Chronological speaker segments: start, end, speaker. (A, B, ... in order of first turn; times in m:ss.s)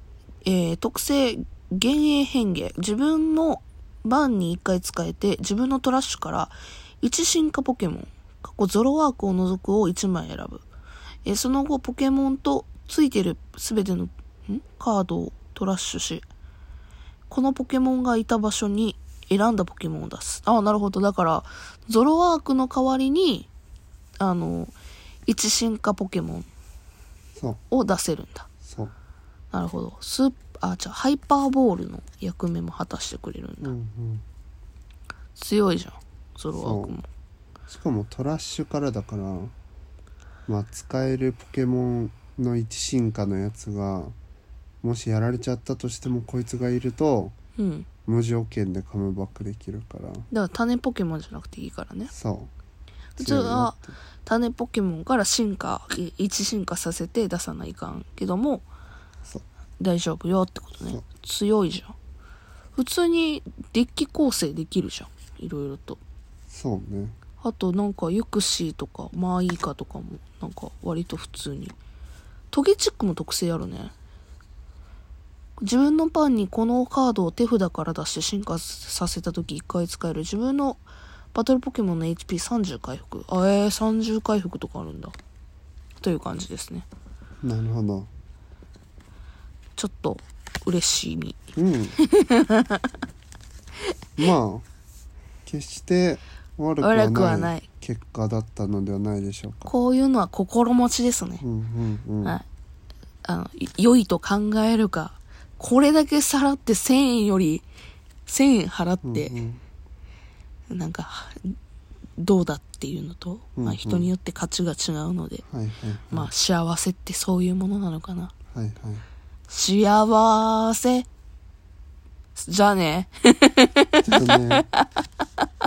0:00.4-0:10.6 A
0:11.2-0:16.2 A
0:17.3-0:23.5 A
0:24.2-0:24.7 A
0:25.3-0:26.4 A
0:27.7-0:28.5 A
0:28.6-0:28.9 B
0:29.5-0:33.7 A
0:33.6-0:34.2 B
0:35.4-0:37.0 A
0:36.5-0:37.0 B
0:37.7-0:39.5 B
0:40.5-0:44.2 B
0:44.8-0:47.3 B
0:47.6-0:47.9 A
0:48.0-0:50.3 B
0:50.3-0:52.1 A
0:52.1-0:52.5 B
0:53.2-0:58.6 A
0:53.2-0:54.0 B
0:59.8-1:01.9 A
1:02.7-1:06.0 A
1:06.5-1:07.2 B
1:07.4-1:11.7 A
1:12.5-1:13.9 A
1:15.6-1:20.8 A
1:21.3-1:25.1 A
1:26.0-1:26.8 A
1:27.4-1:28.1 B
1:29.8-1:31.4 A
1:31.6-1:32.0 B
1:32.0-1:32.9 A
1:34.2-1:34.6 B
1:35.4-1:39.7 B
1:36.8-1:37.6 A
1:39.6-1:41.4 A
1:41.4-1:42.4 B
1:43.2-1:47.6 A
1:48.2-1:49.4 A
1:49.0-1:49.6 B
1:50.7-1:51.6 A
1:52.2-1:55.4 A
1:53.6-1:54.1 B
1:55.4-1:56.3 B
1:56.1-1:58.3 A
1:58.5-1:59.0 B
1:59.5-2:01.0 A
2:02.3-2:04.8 A
2:04.0-2:04.7 B